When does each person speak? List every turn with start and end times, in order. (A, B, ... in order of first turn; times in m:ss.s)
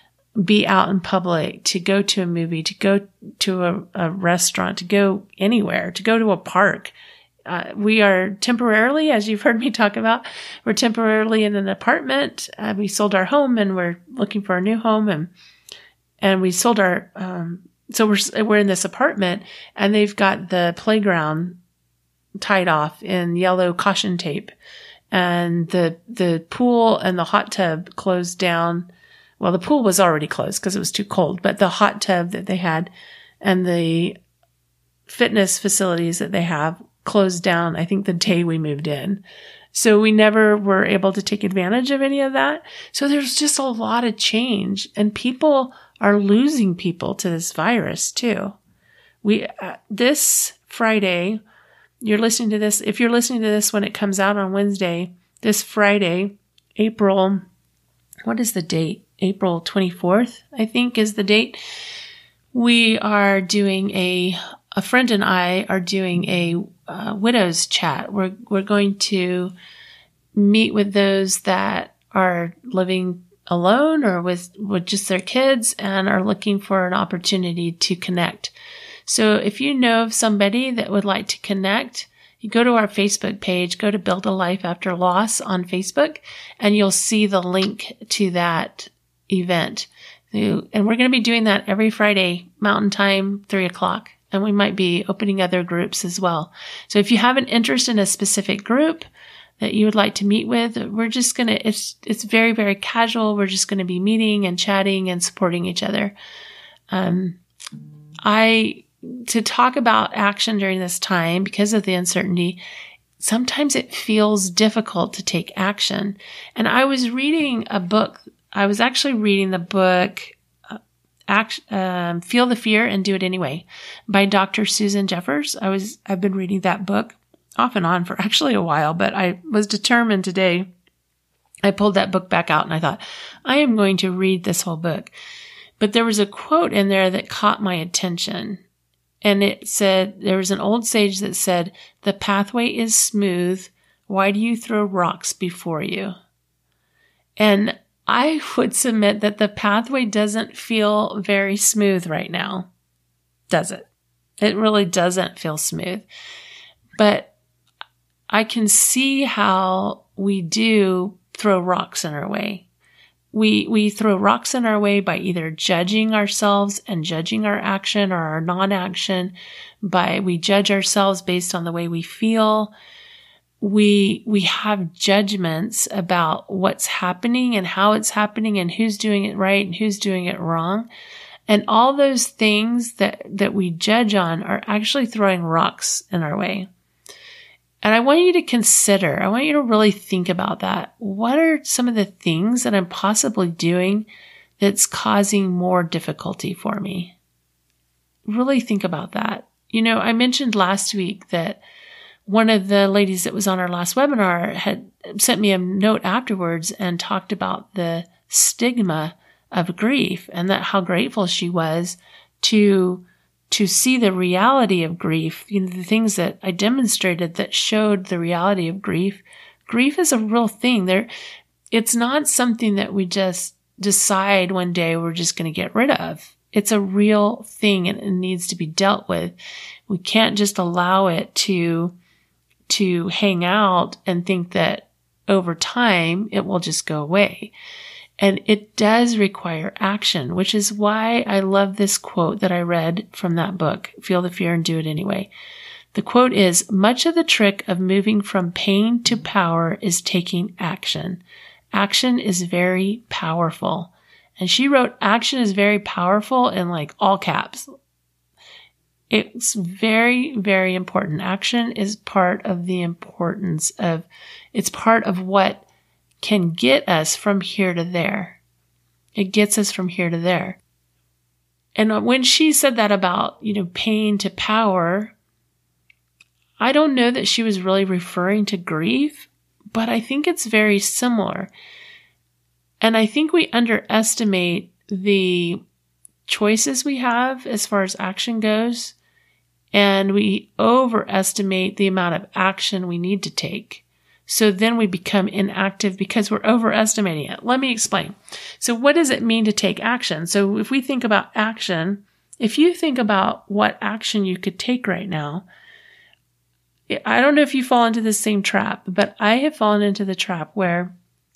0:00.4-0:06.9 A
0:07.5-0:15.3 A
0:16.2-0:21.6 A
0:22.4-0:24.5 A
0:25.1-0:28.9 A
0:29.4-0:32.9 A
0:33.4-0:34.2 A
0:35.1-0:48.6 A
0:49.2-0:51.4 A
0:52.0-0:57.4 A
0:58.2-1:01.6 A
1:02.5-1:09.5 A
1:10.3-1:18.5 A
1:19.0-1:39.1 A
1:39.6-1:46.1 A
1:46.9-1:47.4 A
1:48.2-1:52.6 A
1:53.2-2:00.8 A
2:01.3-2:10.7 A
2:11.6-2:15.1 A
2:15.8-2:18.6 A
2:19.2-2:26.1 A
2:27.4-2:32.7 A
2:33.5-2:33.9 A
2:34.4-2:36.0 A
2:37.0-2:37.3 A
2:38.3-2:42.7 A
2:43.3-2:52.7 A
2:53.6-3:00.9 A
3:01.5-3:06.7 A
3:07.8-3:14.1 A
3:14.6-3:17.2 A
3:18.3-3:21.6 A
3:22.2-3:41.1 A
3:41.7-3:49.4 A
3:49.9-3:51.9 A
3:52.7-3:57.5 A
3:58.2-4:05.3 A
4:05.9-4:11.2 A
4:11.7-4:17.6 A
4:19.1-4:25.6 A
4:26.2-4:28.4 A
4:29.2-4:30.6 A
4:31.8-4:35.1 A
4:36.6-4:41.5 A
4:42.8-4:45.6 A
4:46.3-4:49.0 A
4:49.7-5:05.5 A
5:06.9-5:10.9 A